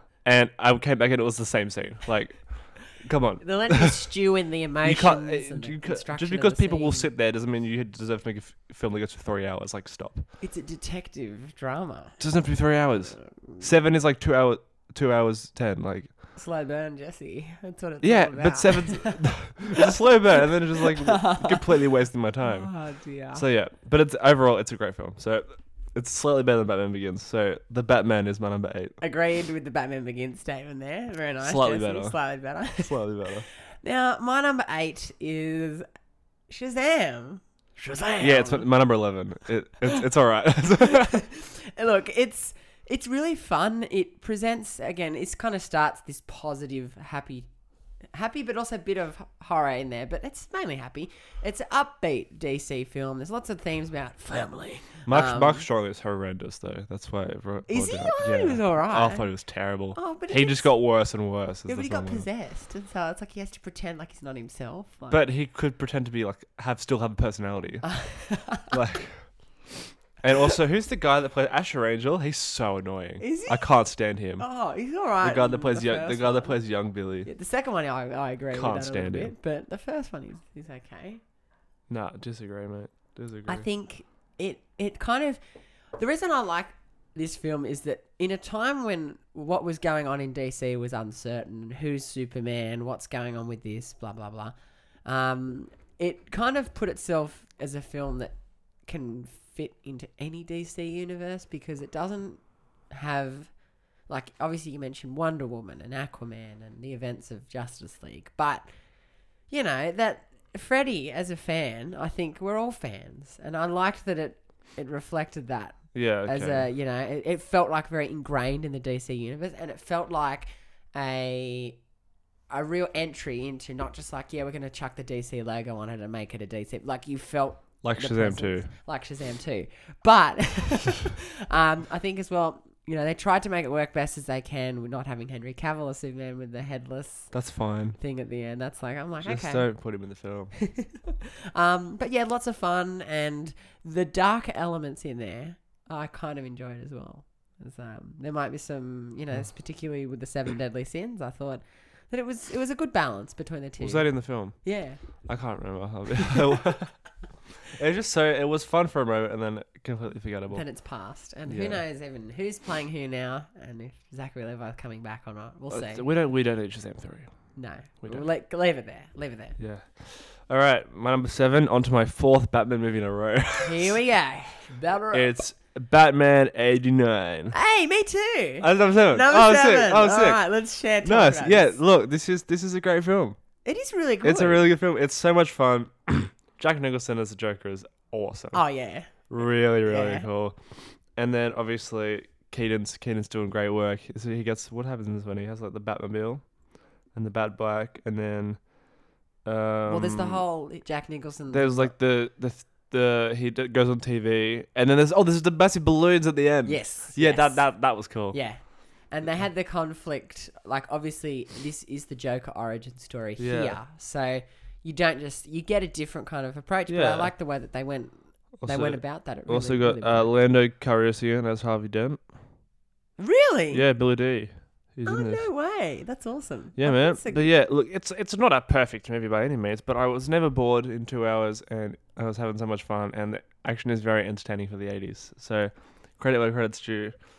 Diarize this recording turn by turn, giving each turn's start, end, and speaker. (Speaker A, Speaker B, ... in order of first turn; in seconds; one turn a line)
Speaker A: 0.2-4.0
Speaker B: 3.4-7.1
Speaker A: 4.8-10.2
Speaker B: 10.4-12.2
Speaker A: 12.2-16.1
Speaker B: 13.2-13.7
Speaker B: 16.4-21.8
Speaker A: 18.0-22.7
Speaker B: 22.4-23.4
Speaker A: 23.3-28.9
Speaker B: 29.0-33.1
Speaker A: 31.4-32.2
Speaker A: 32.8-33.5
Speaker B: 33.7-35.9
Speaker B: 36.5-38.7
Speaker A: 38.2-41.2
Speaker B: 40.8-47.5
Speaker B: 48.1-55.7
Speaker A: 55.1-62.3
Speaker B: 57.7-59.3
Speaker B: 59.9-60.7
Speaker B: 61.7-65.3
Speaker A: 65.1-68.0
Speaker B: 67.8-68.8
Speaker A: 68.7-69.3
Speaker A: 70.2-74.5
Speaker B: 73.2-73.7
Speaker B: 74.4-76.6
Speaker A: 75.2-77.3
Speaker B: 77.2-81.2
Speaker A: 78.5-79.3
Speaker A: 81.9-83.7
Speaker B: 83.5-85.4
Speaker B: 85.9-108.7
Speaker B: 109.5-121.8
Speaker A: 115.9-116.7
Speaker B: 122.5-137.4
Speaker A: 127.8-128.7
Speaker A: 137.3-138.0
Speaker B: 138.0-140.0
Speaker A: 139.2-140.6
Speaker B: 140.6-155.0
Speaker A: 153.8-157.1
Speaker A: 157.7-160.6
Speaker B: 160.5-166.0
Speaker A: 161.5-161.8
Speaker A: 165.7-167.3
Speaker B: 167.6-169.6
Speaker A: 169.6-174.0
Speaker B: 173.6-175.4
Speaker A: 175.1-177.6
Speaker B: 177.5-181.8
Speaker A: 178.6-180.4
Speaker A: 181.0-183.4
Speaker B: 183.7-184.7
Speaker A: 184.2-188.6
Speaker B: 188.5-189.3
Speaker A: 189.3-190.6
Speaker B: 189.8-190.3
Speaker A: 191.2-196.5
Speaker A: 197.1-198.8
Speaker A: 199.4-200.4
Speaker B: 199.9-201.9
Speaker A: 201.5-208.4
Speaker B: 206.7-220.4
Speaker A: 213.4-213.8
Speaker A: 216.9-217.3
Speaker A: 218.6-222.2
Speaker B: 223.2-223.8
Speaker A: 223.7-225.5
Speaker B: 225.1-227.5
Speaker A: 226.8-237.2